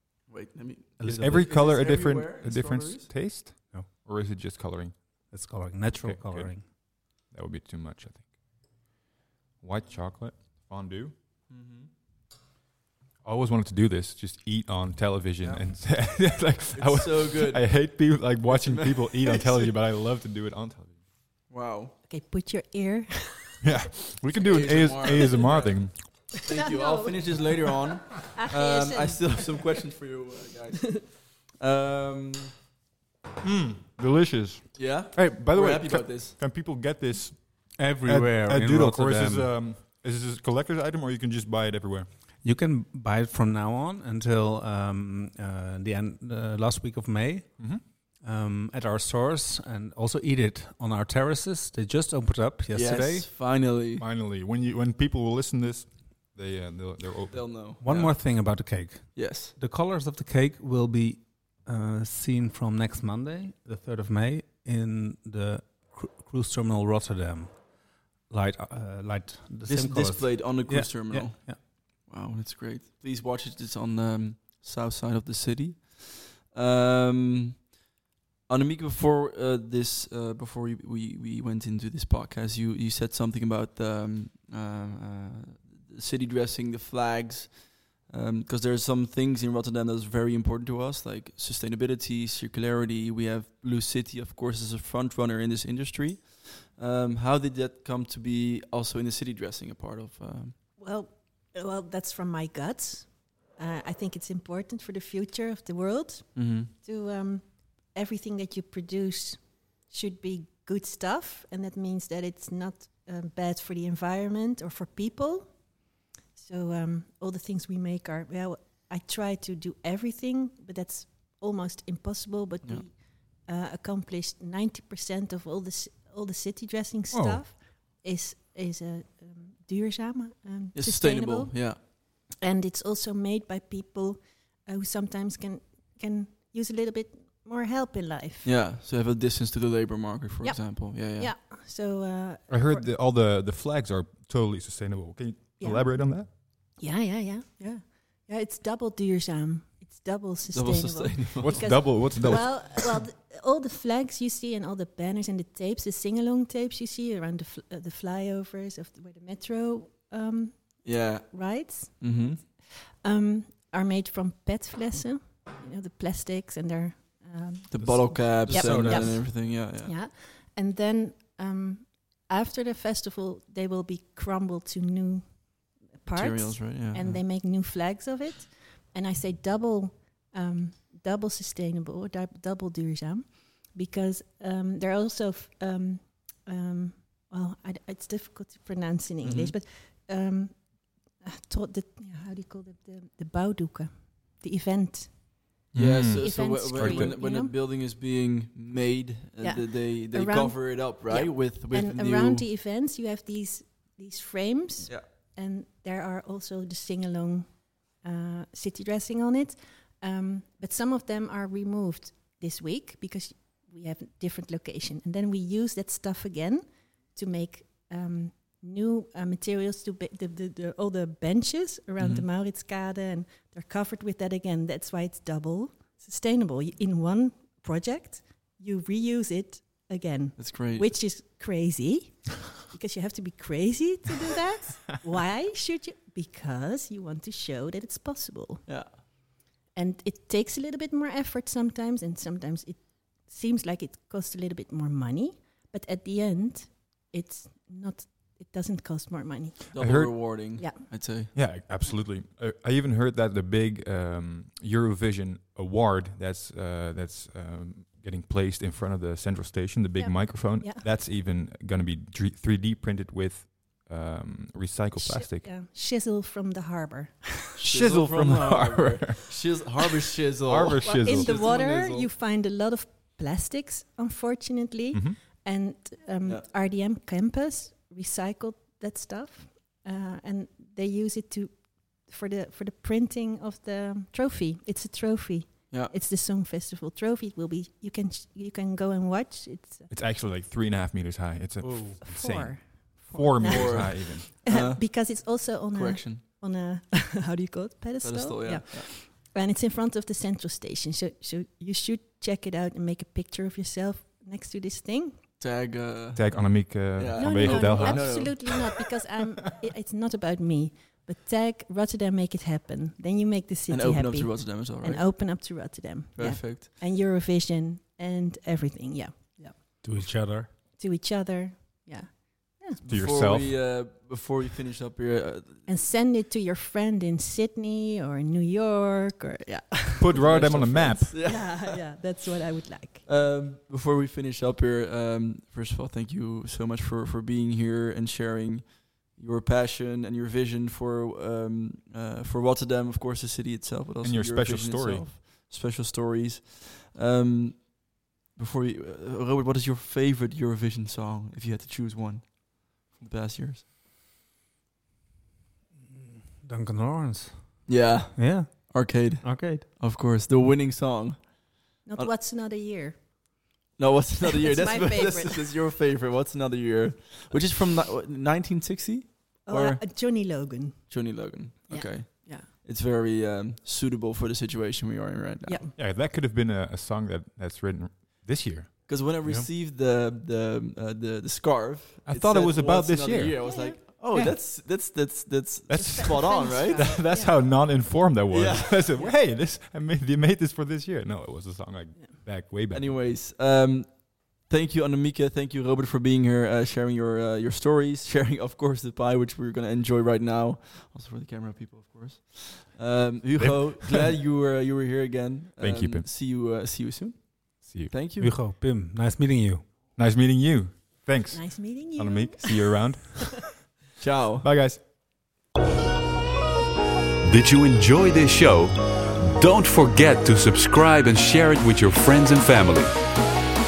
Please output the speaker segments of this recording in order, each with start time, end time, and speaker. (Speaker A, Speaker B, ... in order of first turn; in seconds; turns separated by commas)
Speaker A: 0.3-3.1, Speaker B: 1.0-1.4, Speaker C: 1.2-5.3, Speaker B: 5.3-6.7, Speaker C: 6.0-8.9, Speaker C: 9.6-11.2, Speaker A: 11.5-11.9, Speaker C: 13.2-21.0, Speaker A: 15.4-19.7, Speaker A: 21.5-21.9, Speaker D: 22.1-23.6, Speaker C: 23.6-26.3, Speaker A: 24.2-32.6, Speaker D: 26.5-29.4, Speaker C: 33.4-42.1, Speaker A: 34.8-36.4, Speaker B: 37.7-39.6, Speaker B: 42.4-53.3, Speaker A: 52.7-54.0, Speaker C: 54.0-57.8, Speaker A: 57.3-59.5, Speaker B: 57.8-71.6, Speaker A: 69.7-77.8, Speaker A: 78.5-100.6, Speaker D: 100.8-138.5, Speaker A: 106.3-106.7, Speaker B: 127.1-127.4, Speaker A: 130.7-131.8, Speaker A: 138.4-141.3, Speaker D: 140.4-142.9, Speaker C: 142.5-146.3, Speaker D: 145.6-195.6, Speaker A: 150.5-152.6, Speaker C: 151.4-152.7, Speaker A: 160.8-162.4, Speaker A: 167.7-169.9, Speaker B: 167.8-169.3, Speaker A: 176.1-177.2, Speaker A: 189.2-189.5, Speaker C: 195.7-197.2, Speaker A: 195.8-202.5, Speaker D: 196.1-197.6, Speaker D: 199.4-251.4, Speaker A: 222.0-222.3, Speaker A: 230.4-230.9, Speaker A: 238.7-239.0, Speaker A: 249.7-251.3, Speaker C: 249.8-265.5, Speaker D: 260.0-260.8, Speaker D: 265.0-267.6, Speaker C: 267.6-269.4, Speaker A: 267.6-272.1, Speaker C: 270.5-271.4, Speaker D: 270.8-289.9, Speaker C: 274.9-275.2, Speaker C: 289.9-292.5, Speaker B: 291.6-292.8, Speaker D: 292.0-305.2, Speaker C: 293.1-294.3, Speaker A: 293.4-296.2, Speaker A: 298.0-298.9, Speaker A: 305.4-308.5, Speaker C: 306.1-308.6, Speaker D: 307.1-320.2, Speaker A: 313.7-315.6, Speaker A: 316.2-316.7, Speaker B: 319.8-320.5, Speaker D: 320.8-322.8, Speaker A: 322.8-325.7, Speaker C: 322.9-323.7, Speaker D: 325.7-330.1, Speaker C: 330.0-331.1, Speaker A: 330.1-331.8, Speaker D: 331.2-333.1, Speaker A: 333.0-353.6, Speaker C: 344.0-345.1, Speaker B: 355.8-359.7, Speaker A: 357.7-362.1, Speaker D: 361.9-363.6, Speaker A: 363.8-375.6, Speaker D: 364.2-365.5, Speaker D: 369.5-372.5, Speaker D: 375.4-375.7, Speaker C: 375.8-378.9, Speaker A: 378.9-387.0, Speaker B: 379.2-379.5, Speaker C: 382.1-383.4, Speaker D: 383.4-384.4, Speaker C: 385.7-392.9, Speaker D: 385.7-387.4, Speaker A: 388.3-389.2, Speaker A: 392.7-408.3, Speaker C: 403.4-404.1, Speaker C: 405.6-406.1, Speaker C: 407.6-407.9, Speaker B: 408.2-409.9, Speaker C: 409.9-413.9, Speaker D: 411.3-413.2, Speaker A: 414.0-414.4, Speaker C: 414.4-415.3, Speaker E: 417.3-423.2